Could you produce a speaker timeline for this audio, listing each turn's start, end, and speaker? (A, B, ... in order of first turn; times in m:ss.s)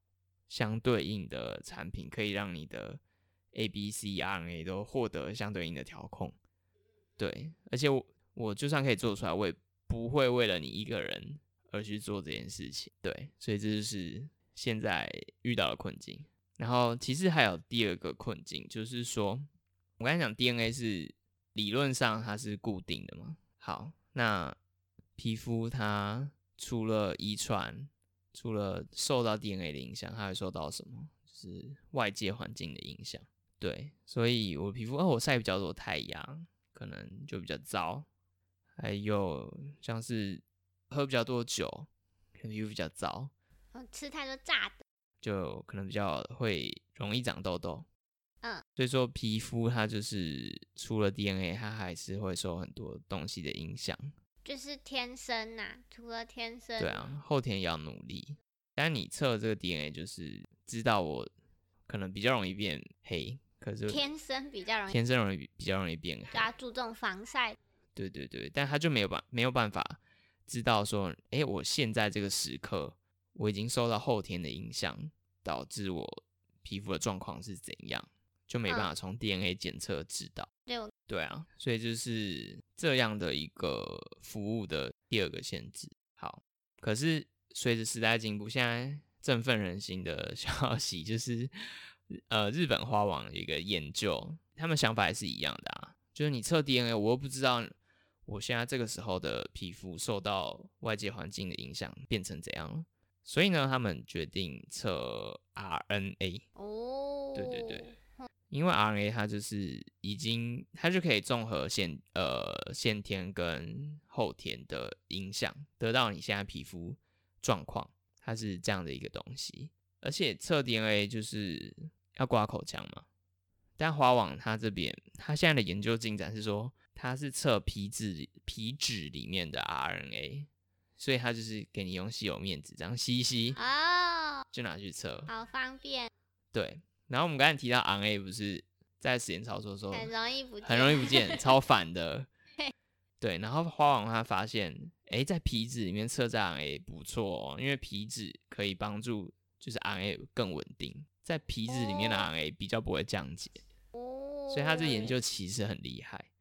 0:00.5-0:03.0 A
0:03.5-0:06.4 A
0:07.2-0:19.5 A
0:20.0-0:24.6 A
0:25.2-0:38.1 A
0:38.8-0:43.3 A
0:43.7-0:44.8 B
0:45.2-0:47.9 A
0:48.8-0:54.1 A
0:54.4-0:57.0 B
0:56.8-1:01.3 A
1:01.9-1:04.0 A
1:03.9-1:05.0 B
1:04.9-1:06.5 A
1:06.3-1:07.6 B
1:08.0-1:20.5 A
1:20.7-1:20.9 B
1:21.1-1:37.7 A
1:38.2-1:46.4 A
1:46.6-1:48.3 B
1:47.3-1:47.9 A
1:48.5-2:03.0 A
2:03.8-2:13.6 A
2:13.6-2:14.4 B
2:14.5-2:15.3 A
2:15.3-2:16.1 B
2:16.5-2:20.1 A
2:19.9-2:21.5 B
2:20.6-2:22.3 A
2:23.2-2:33.6 A
2:31.7-2:32.3 B
2:33.9-2:35.2 B
2:34.5-2:36.3 A